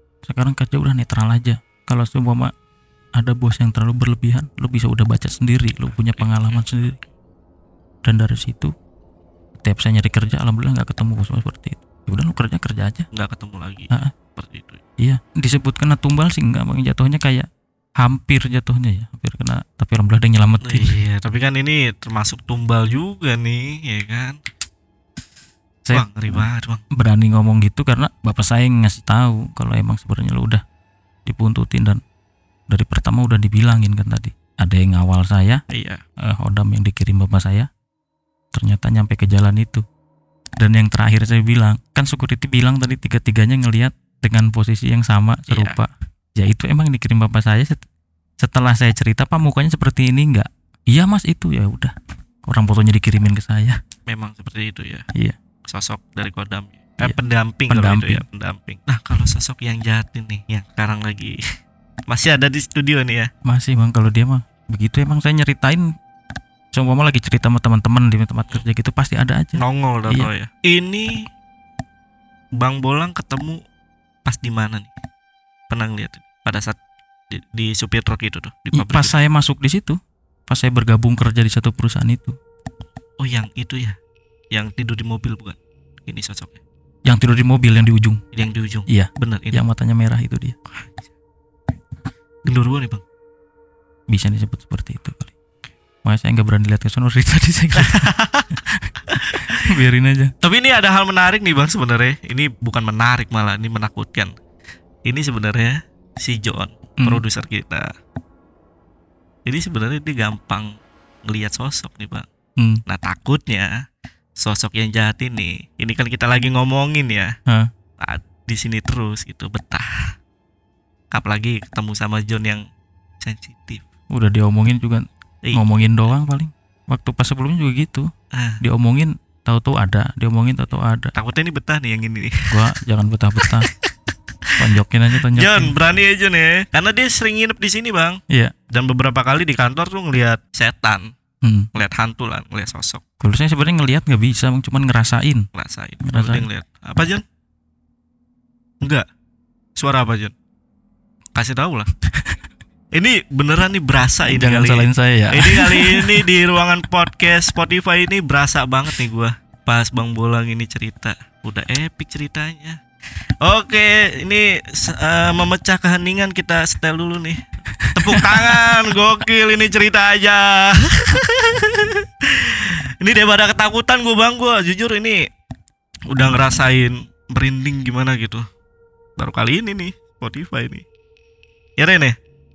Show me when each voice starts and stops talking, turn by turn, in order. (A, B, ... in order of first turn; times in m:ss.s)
0:00.2-0:02.5 A
0:03.2-0:07.0 A
0:06.0-0:07.1 B
0:08.0-0:08.7 A
0:09.6-0:13.1 A
0:13.1-0:14.8 B
0:15.0-0:17.5 A
0:18.0-0:21.0 A
0:20.6-0:24.4 B
0:25.8-0:30.6 A
0:25.9-0:26.8 B
0:31.3-0:32.0 A
0:32.7-0:35.6 A
0:35.7-0:36.0 B
0:36.2-0:37.7 A
0:38.5-0:39.8 A
0:40.6-0:47.8 A
0:45.5-0:45.8 B
0:48.4-0:51.9 A
0:52.4-0:53.8 A
0:54.1-0:55.1 B
0:55.6-1:01.4 B
0:57.7-0:58.2 A
1:02.1-1:03.3 B
1:03.4-1:05.9 A
1:06.7-1:10.3 A
1:09.6-1:11.3 B
1:12.6-1:13.6 B
1:14.2-1:14.9 B
1:15.7-1:16.8 B
1:17.3-1:19.2 B
1:18.7-1:22.4 A
1:23.2-1:24.0 B
1:24.5-1:26.6 B
1:27.1-1:28.2 A
1:28.3-1:29.6 B
1:28.9-1:30.6 A
1:30.7-1:31.1 B
1:32.5-1:33.0 B
1:34.1-1:35.4 A
1:36.0-1:38.8 A
1:37.8-1:38.6 B
1:39.1-1:39.7 B
1:39.6-1:40.3 A
1:40.4-1:44.3 B
1:45.1-1:47.9 B
1:49.5-1:50.7 B
1:51.3-1:52.3 B
1:52.9-1:53.8 B
1:54.4-1:57.3 B
1:58.0-2:00.1 B
2:01.1-2:02.6 B
2:03.2-2:03.9 B
2:04.1-2:08.1 A
2:08.3-2:08.6 B
2:08.6-2:11.1 A
2:11.1-2:12.6 B
2:12.5-2:13.7 A
2:13.4-2:13.9 B
2:14.6-2:15.7 A
2:15.3-2:21.1 B
2:21.4-2:21.7 A
2:21.8-2:23.0 B
2:23.2-2:25.5 A
2:25.6-2:27.2 B
2:26.0-2:26.5 A
2:29.8-2:30.3 B
2:31.4-2:31.9 B
2:32.9-2:42.8 B
2:34.3-2:36.3 A
2:43.4-2:47.4 B
2:47.8-2:48.8 A
2:47.9-2:55.2 B
2:56.1-2:58.4 B
2:59.2-3:00.8 B
3:01.8-3:02.2 B